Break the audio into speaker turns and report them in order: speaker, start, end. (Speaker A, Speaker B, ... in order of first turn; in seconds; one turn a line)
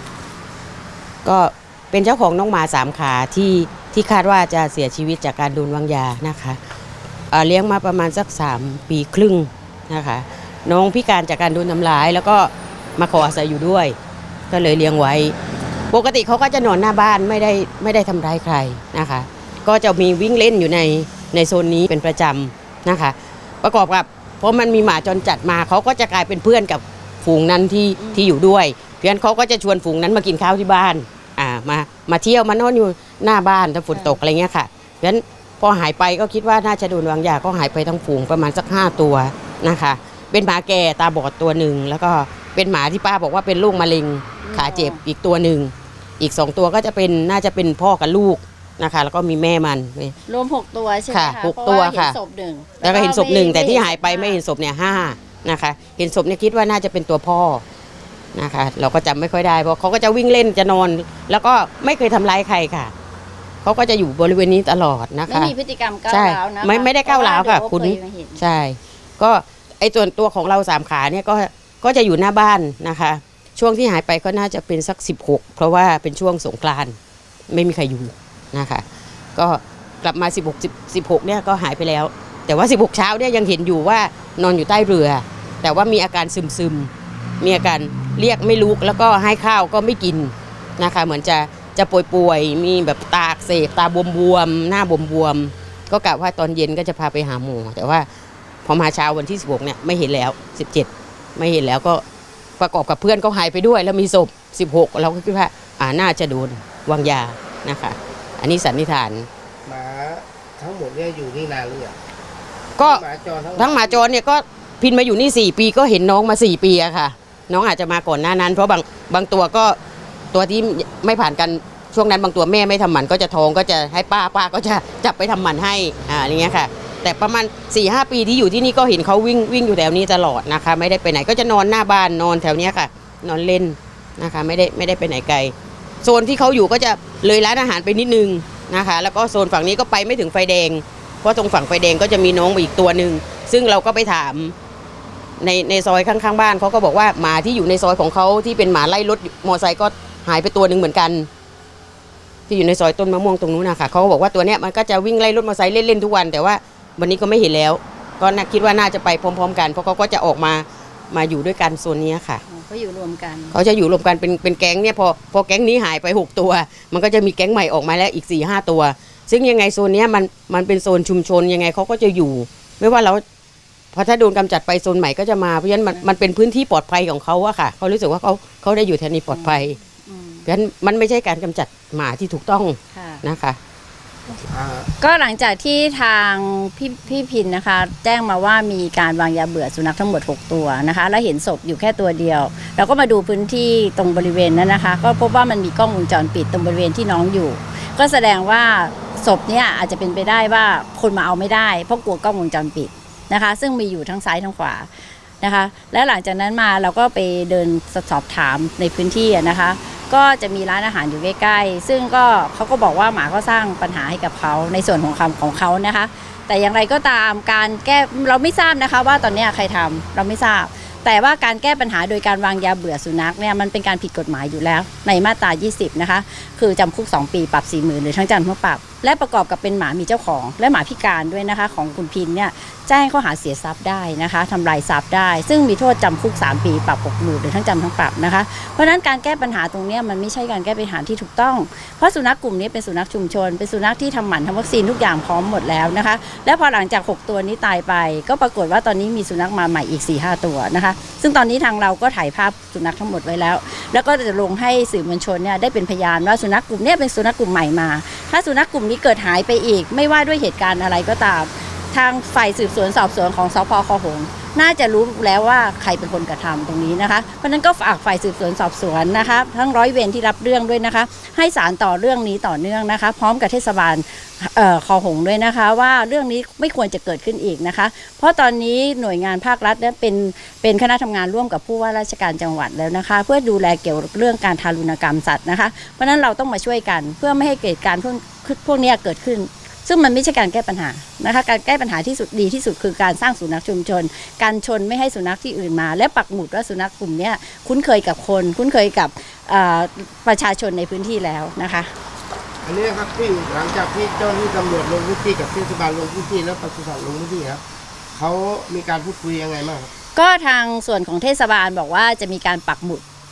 Speaker A: 1.2-6.6
Speaker A: 7.3-13.9
Speaker A: 14.5-15.3
Speaker A: 15.9-50.1
Speaker B: 28.0-28.3
Speaker B: 33.9-34.2
Speaker B: 44.4-45.0
Speaker B: 50.3-54.4
Speaker A: 51.1-52.2
Speaker A: 52.8-57.6
Speaker A: 58.3-62.9
Speaker A: 63.6-65.5
Speaker B: 65.3-68.4
Speaker A: 66.1-77.0
Speaker A: 77.5-78.8
Speaker A: 79.3-86.9
Speaker A: 87.4-98.0
Speaker A: 98.7-102.0
Speaker A: 102.6-109.3
Speaker C: 109.7-112.0
Speaker A: 112.8-113.0
Speaker C: 112.8-114.0
Speaker A: 113.5-119.8
Speaker A: 120.3-144.5
Speaker A: 145.4-151.3
Speaker A: 152.5-162.4
Speaker B: 162.5-163.6
Speaker A: 163.5-173.2
Speaker A: 173.9-179.8
Speaker B: 179.3-180.5
Speaker A: 180.4-183.6
Speaker B: 182.9-183.2
Speaker C: 184.4-184.9
Speaker B: 185.0-204.9
Speaker B: 205.4-301.9
Speaker C: 302.6-307.6
Speaker C: 308.1-309.9
Speaker B: 310.1-313.0